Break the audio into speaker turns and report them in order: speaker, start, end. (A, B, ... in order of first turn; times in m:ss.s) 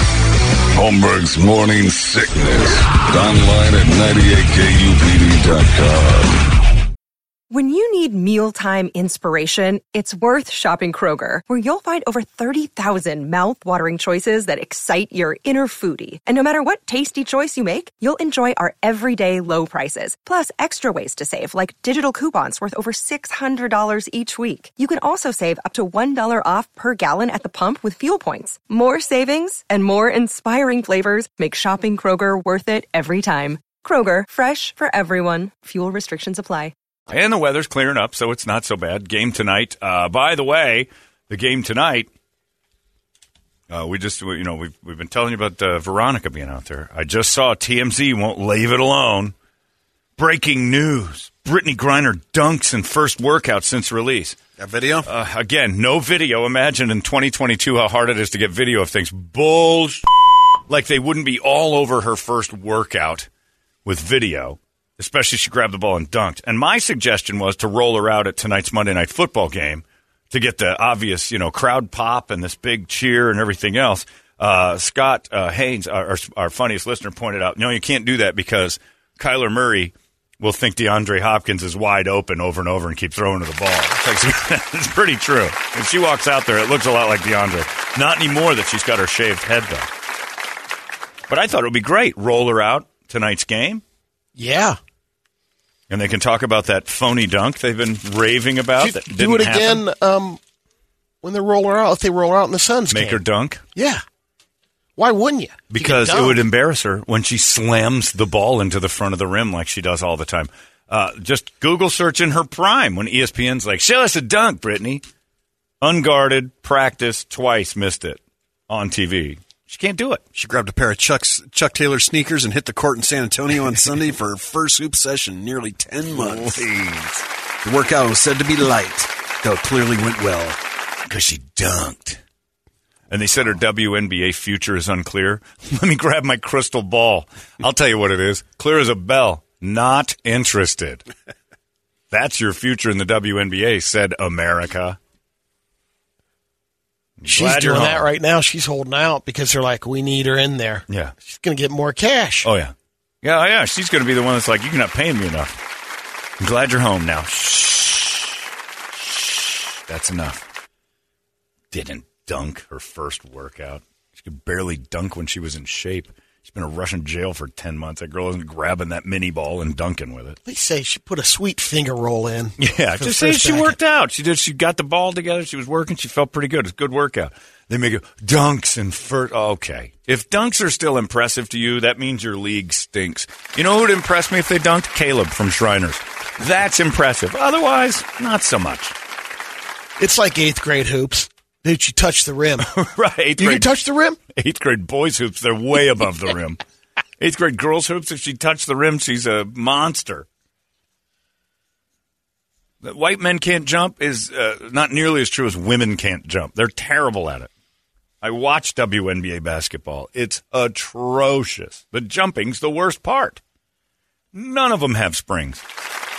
0:00.7-0:06.4 A
0:07.5-0:36.7 B
0:37.1-0:42.1 C
0:43.7-0:49.3 C
0:50.2-0:54.4 C
0:54.6-0:55.1 D
0:55.0-1:00.0 C
1:00.7-1:03.3 C
1:03.8-1:29.9 C
1:31.3-1:33.8 C
1:34.4-1:34.8 E
1:35.9-1:39.8 C
1:38.8-1:40.4 E
1:41.2-1:43.2 E
1:42.9-1:43.6 C
1:43.8-1:44.0 E
1:45.0-1:46.4 E
1:45.7-1:55.0 C
1:55.8-2:00.2 C
2:00.3-2:06.7 D
2:06.1-2:07.2 C
2:07.6-2:10.6 D
2:11.0-2:12.2 C
2:13.1-2:21.0 C
2:22.1-2:25.0 C
2:27.2-2:28.1 C
2:27.3-2:32.5 E
2:30.9-2:31.1 C
2:32.4-2:35.6 C
2:36.4-2:40.4 C
2:41.7-2:50.4 C
2:50.4-2:53.8 E
2:52.6-3:08.9 C
3:10.0-3:12.7 E
3:12.6-3:13.7 C
3:13.4-3:14.2 E
3:14.3-3:16.6 C
3:17.2-3:20.3 C
3:22.8-3:27.5 C
3:28.2-3:33.4 C
3:34.3-3:35.6 C